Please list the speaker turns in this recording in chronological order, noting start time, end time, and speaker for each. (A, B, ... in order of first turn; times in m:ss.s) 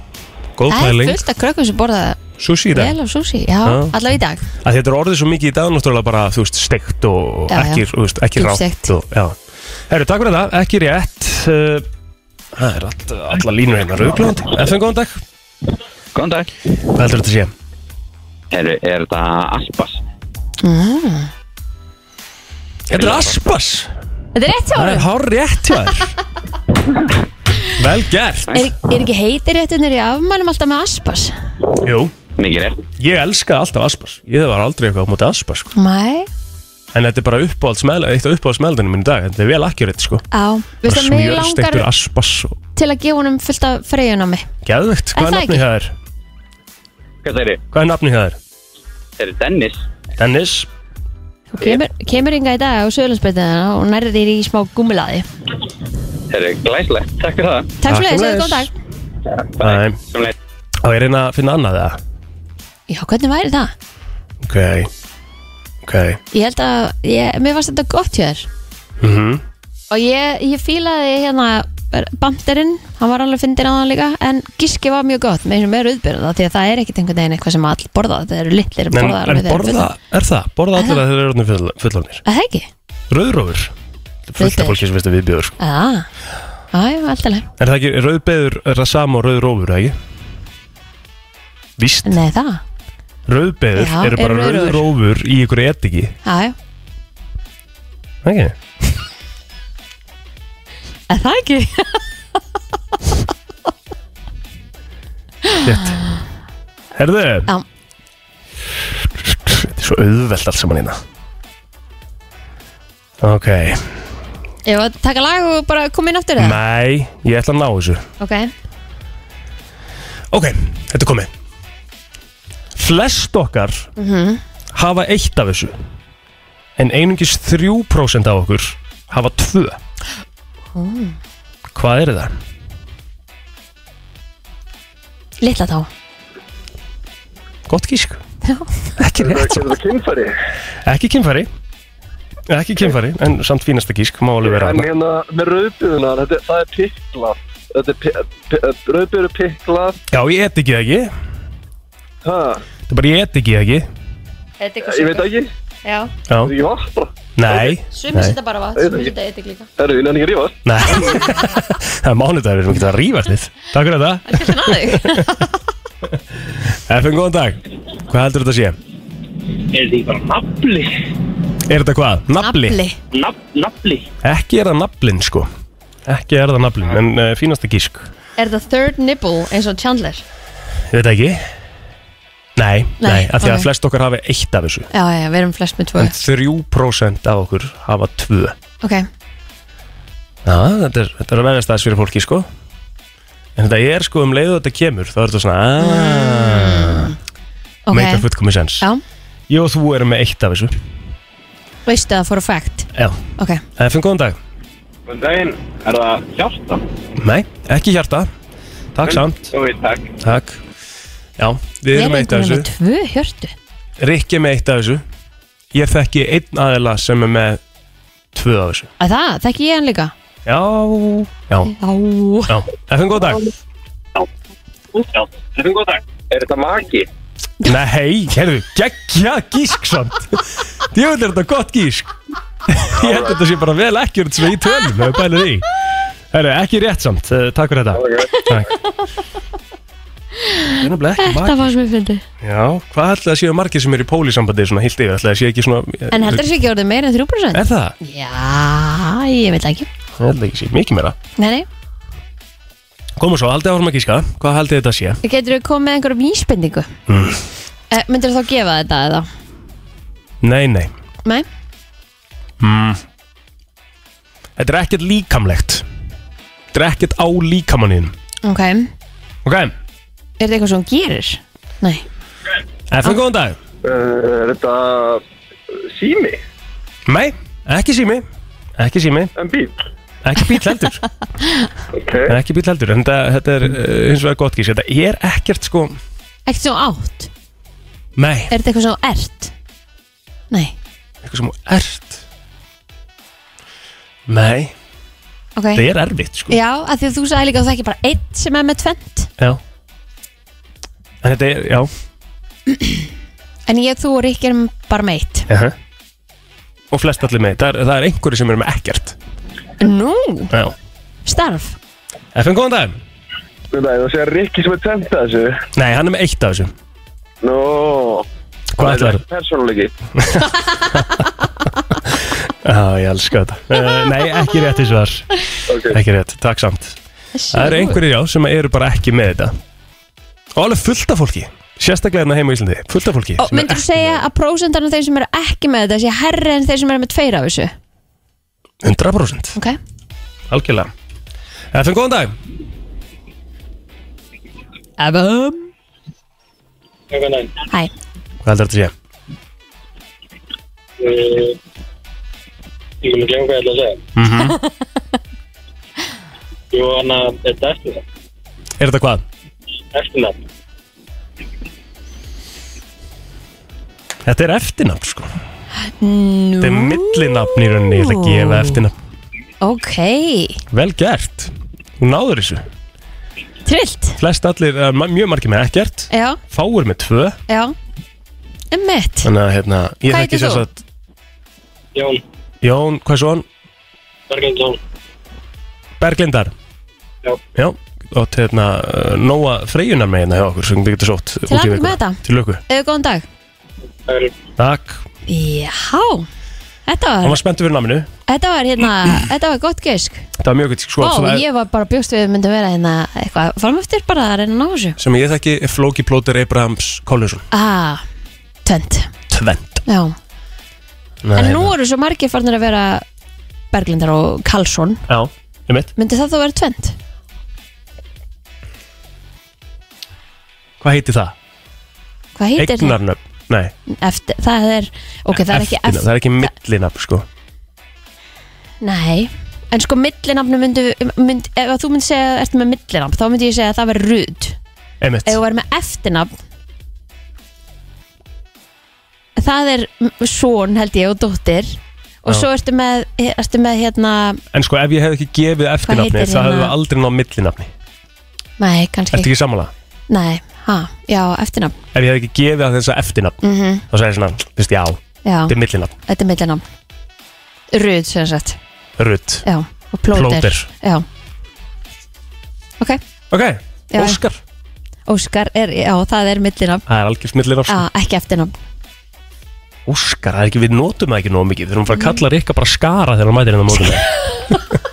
0:00.6-0:01.2 A
0:00.7-0:04.5 B
0:02.4-0:03.0 A
0:03.6-0:04.0 A
0:04.6-0:09.4 A
0:07.5-0:07.8 B
0:08.4-0:08.9 B
0:09.9-0:11.9 A
0:12.5-0:15.2 A
0:16.1-0:16.5 C
0:16.9-0:17.5 A
0:18.5-0:20.0 C
0:20.6-0:21.3 B
0:22.9-0:23.9 A
0:22.9-0:23.2 C
0:24.3-0:25.1 B
0:24.7-0:26.1 A
0:27.8-0:28.6 A
0:28.5-0:31.3 B
0:31.8-0:32.1 A
0:32.4-0:32.8 C
0:33.0-0:35.7 A
0:35.7-0:36.3 B
0:36.9-0:40.2 A
0:40.3-0:41.9 B
0:40.8-0:42.6 A
0:42.7-0:44.5 B
0:44.6-0:45.9 A
0:45.2-0:45.6 B
0:47.2-0:47.6 C
0:47.7-0:48.4 A
0:49.2-0:49.8 C
0:50.2-0:50.7 A
0:51.5-0:55.2 B
0:56.3-0:57.7 C
0:57.8-0:58.7 B
0:57.8-0:58.7 A
0:59.4-1:00.3 C
0:59.6-1:00.0 A
1:00.8-1:02.0 A
1:02.9-1:03.7 B
1:04.4-1:04.9 A
1:05.8-1:06.2 A
1:06.3-1:08.5 B
1:09.0-1:09.4 A
1:09.9-1:19.9 B
1:18.9-1:22.2 A
1:22.2-1:22.7 B
1:23.1-1:23.7 A
1:24.3-1:25.5 A
1:24.4-1:24.8 B
1:25.6-1:26.1 B
1:26.7-1:27.5 B
1:27.6-1:30.0 A
1:31.8-1:32.2 A
1:32.0-1:32.6 B
1:33.3-1:36.1 A
1:33.7-1:34.9 B
1:36.2-1:36.6 B
1:38.2-1:38.9 A
1:41.1-1:42.0 B
1:45.4-1:45.8 B
1:45.6-1:46.0 A
1:46.9-1:47.5 A
1:49.2-1:51.0 A
1:53.2-1:54.0 A
1:54.6-1:56.6 B
1:56.4-1:58.0 A
1:58.2-1:58.5 B
2:00.3-2:01.3 A
2:02.8-2:03.9 A
2:04.0-2:04.4 B
2:04.7-2:05.8 A
2:06.8-2:09.8 A
2:10.7-2:11.2 B
2:11.7-2:12.3 A
2:15.4-2:15.9 B
2:17.7-2:18.2 A
2:18.4-2:18.7 B
2:19.0-2:19.7 A
2:19.2-2:20.3 D
2:20.8-2:21.5 A
2:22.5-2:24.9 A
2:24.4-2:30.0 D
2:30.1-2:31.1 A
2:32.2-2:32.6 D
2:32.9-2:33.9 A
2:34.6-2:35.3 B
2:34.8-2:35.5 D
2:35.8-2:36.1 B
2:36.3-2:36.5 A
2:36.4-2:37.1 D
2:37.4-2:38.4 A
2:37.6-2:39.7 B
2:38.8-2:39.1 D
2:39.8-2:40.6 D
2:40.6-2:45.4 A
2:44.3-2:45.5 B
2:46.6-2:48.8 A
2:49.7-2:50.9 E
2:51.7-2:52.8 A
2:52.4-2:53.0 B
2:53.1-2:54.1 E
2:54.2-2:55.5 A
2:56.1-2:58.1 A
2:58.4-3:00.2 B
3:00.9-3:01.4 A
3:02.6-3:04.9 A
3:03.0-3:03.7 B
3:04.9-3:06.1 B
3:06.0-3:08.6 A
3:08.8-3:09.1 B
3:10.4-3:12.5 A
3:13.6-3:17.1 A
3:15.8-3:17.1 B
3:17.9-3:18.3 B
3:17.9-3:18.9 A
3:19.5-3:20.8 A
3:21.8-3:23.6 B
3:22.9-3:23.2 A
3:23.8-3:24.4 A
3:25.1-3:26.3 D
3:27.2-3:28.3 A
3:28.9-3:29.5 A
3:30.2-3:30.6 A
3:31.4-3:32.7 A
3:31.9-3:33.5 B
3:34.0-3:35.0 A
3:35.7-3:37.6 A
3:38.3-3:38.9 A
3:39.0-3:40.1 B
3:40.4-3:41.7 A
3:41.7-3:42.6 B
3:42.5-3:43.5 A
3:46.4-3:47.0 D
3:47.6-3:52.1 A
3:52.7-3:55.7 A
3:56.3-3:58.7 A
3:58.0-3:58.4 D
3:58.3-3:58.6 B
4:00.4-4:02.2 B
4:00.8-4:01.7 A
4:02.4-4:06.5 A
4:06.1-4:09.9 B
4:07.5-4:08.0 A
4:10.2-4:11.2 A
4:11.4-4:11.7 B
4:13.2-4:15.2 A
4:15.2-4:16.9 B
4:17.1-4:17.4 A
4:17.9-4:19.3 B
4:20.4-4:20.9 A
4:22.6-4:23.0 A
4:24.6-4:25.8 A
4:26.7-4:28.1 A
4:28.4-4:28.9 B
4:29.4-4:29.7 A
4:30.4-4:32.0 B
4:32.9-4:33.6 A
4:33.8-4:36.4 D
4:37.1-4:38.2 A
4:38.8-4:39.3 A
4:39.4-4:39.8 D
4:40.2-4:41.0 A
4:41.9-4:42.3 D
4:42.3-4:46.0 A
4:46.5-4:47.3 B
4:48.2-4:48.5 A
4:48.5-4:49.5 B
4:51.2-4:52.2 A
4:54.3-4:54.7 A
4:55.6-4:55.8 B
4:55.7-4:56.6 A
4:56.5-4:59.3 B
5:01.2-5:01.9 A
5:02.7-5:03.0 B
5:03.7-5:05.5 B
5:05.5-5:05.8 A
5:06.9-5:09.2 A
5:09.8-5:10.5 B
5:11.2-5:11.8 B
5:12.3-5:13.0 A
5:13.7-5:15.6 D
5:15.7-5:16.7 A
5:17.4-5:18.2 D
5:18.7-5:19.2 A
5:18.8-5:19.9 D
5:20.2-5:21.2 A
5:22.1-5:25.3 A
5:25.7-5:26.0 D
5:25.8-5:27.0 A
5:27.3-5:28.0 B
5:27.5-5:29.5 A
5:30.5-5:34.2 A
5:33.4-5:37.7 B
5:38.8-5:39.6 A
5:40.5-5:40.9 A
5:41.7-5:42.3 A
5:45.0-5:45.7 B
5:47.1-5:47.6 E
5:48.4-5:48.9 A
5:51.0-5:51.6 E
5:53.0-5:54.0 E
5:54.2-5:54.6 A
5:56.7-5:58.0 E
5:58.8-5:59.2 A
5:59.9-6:00.4 E
6:04.2-6:05.3 A
6:05.8-6:08.8 B
6:06.6-6:08.9 A
6:09.6-6:10.6 B
6:10.7-6:12.6 A
6:13.6-6:14.2 B
6:14.2-6:17.4 A
6:16.1-6:16.4 B
6:17.5-6:17.7 B
6:18.7-6:19.3 B
6:19.2-6:20.8 A
6:20.1-6:20.6 B
6:21.9-6:22.2 E
6:22.6-6:23.4 A
6:24.3-6:24.8 E
6:26.0-6:26.5 A
6:27.5-6:32.6 A
6:31.5-6:33.2 B
6:34.0-6:34.3 E
6:34.6-6:35.0 A
6:35.3-6:36.3 B
6:36.9-6:37.4 B
6:37.2-6:38.1 A
6:38.3-6:40.3 B
6:40.4-6:41.4 A
6:41.0-6:45.0 B
6:45.0-6:47.4 A
6:47.5-6:48.0 B
6:48.6-6:49.1 B
6:49.3-6:49.8 A
6:49.8-6:50.1 B
6:51.2-6:51.7 A
6:51.4-6:53.0 B
6:53.7-6:55.0 B
6:55.1-6:55.9 A
6:56.0-6:57.0 B
7:00.8-7:01.3 A
7:02.4-7:03.0 B
7:02.6-7:03.7 A
7:03.9-7:06.5 B
7:05.3-7:07.2 A
7:08.8-7:14.6 B
7:15.0-7:15.4 A
7:15.2-7:16.3 B
7:19.4-7:24.4 B
7:24.5-7:27.7 A
7:25.8-7:26.7 B
7:28.6-7:29.3 B
7:29.1-7:29.7 A
7:30.1-7:31.8 B
7:31.9-7:35.9 A
7:33.4-7:33.8 B
7:35.2-7:35.5 B
7:36.1-7:36.6 B
7:37.7-7:38.6 B
7:39.0-7:39.4 A
7:39.4-7:41.0 B
7:40.1-7:40.7 A
7:43.3-7:44.4 A
7:43.9-7:44.2 B
7:45.1-7:46.8 B
7:46.9-7:47.8 A
7:47.7-7:48.6 B
7:49.8-7:54.1 A
7:51.9-7:52.2 B
7:54.2-7:54.6 B